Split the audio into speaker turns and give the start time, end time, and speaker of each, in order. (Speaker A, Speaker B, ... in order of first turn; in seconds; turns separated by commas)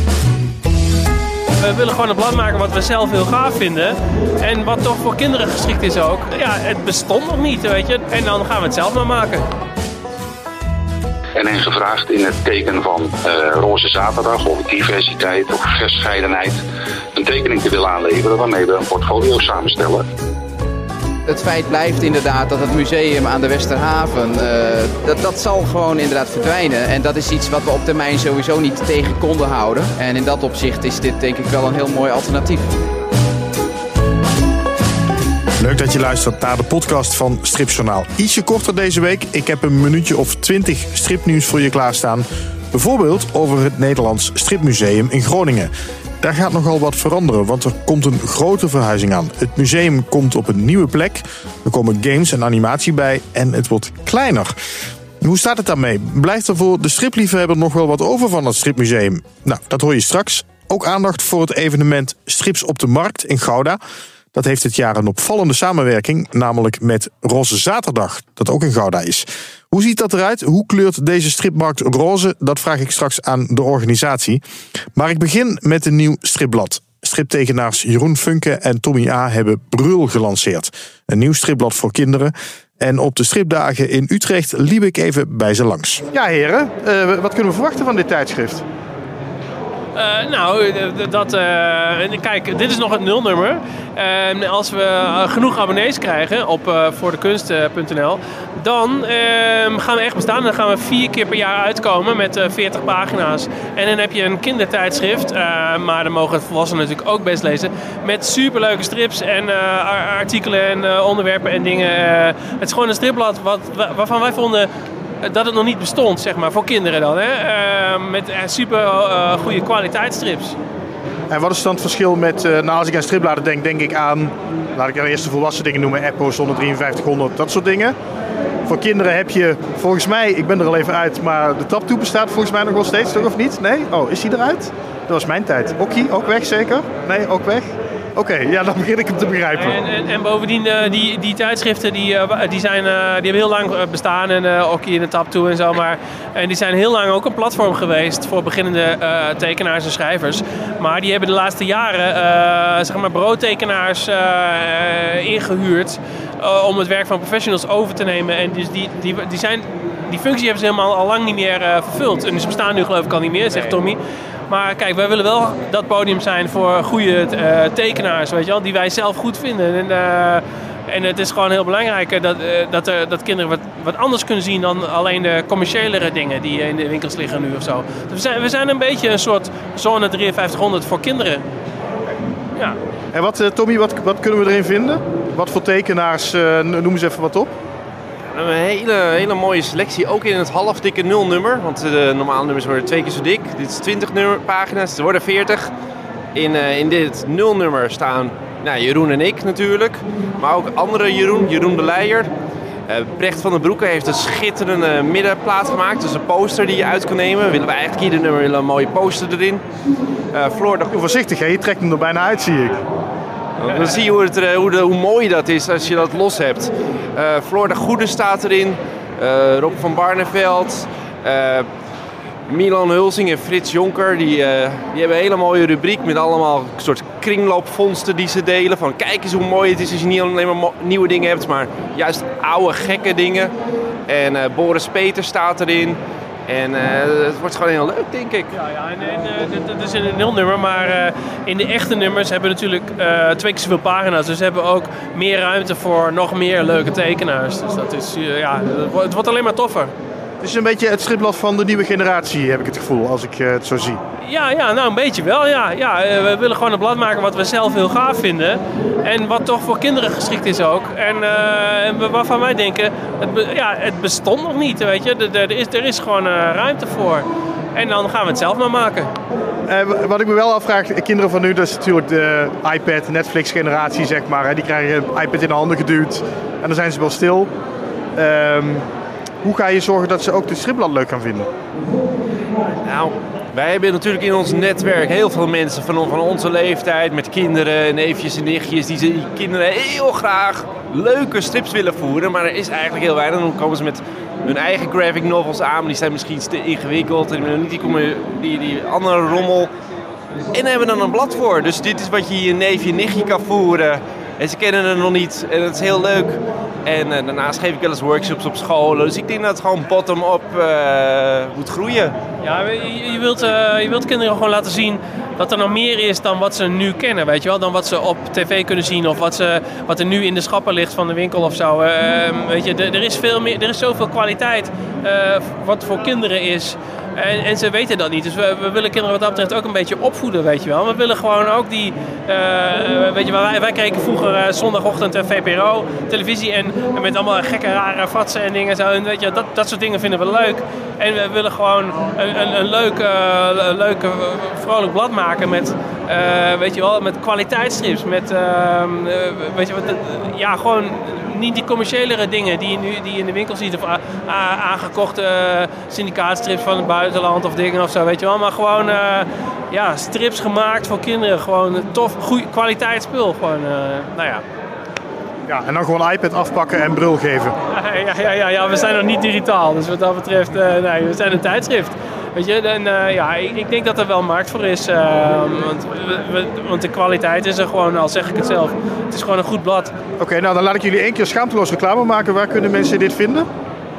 Speaker A: 1.6-9.4, Speaker B: 11.3-16.6, Speaker B: 17.1-20.0, Speaker C: 21.2-32.7, Speaker D: 35.6-54.5, Speaker D: 55.2-63.8, Speaker D: 64.3-74.4, Speaker D: 74.9-88.6, Speaker A: 89.9-114.7, Speaker A: 115.2-120.5, Speaker D: 121.3-127.9, Speaker D: 128.7-139.7, Speaker A: 139.5-181.4, Speaker D: 183.1-187.5, Speaker E: 188.3-195.7, Speaker E: 196.3-202.3, Speaker E: 202.9-209.6, Speaker E: 210.3-210.9, Speaker D: 210.9-212.8, Speaker E: 213.6-221.7, Speaker E: 222.5-233.5, Speaker E: 234.1-238.5, Speaker A: 238.6-249.9, Speaker D: 250.4-254.0, Speaker A: 254.2-269.1, Speaker D: 269.7-277.5, Speaker D: 278.1-278.9, Speaker D: 279.4-281.5, Speaker E: 282.8-299.7, Speaker E: 300.5-312.1, Speaker A: 312.4-364.4, Speaker D: 365.5-367.6, Speaker A: 367.7-379.9, Speaker D: 380.2-383.5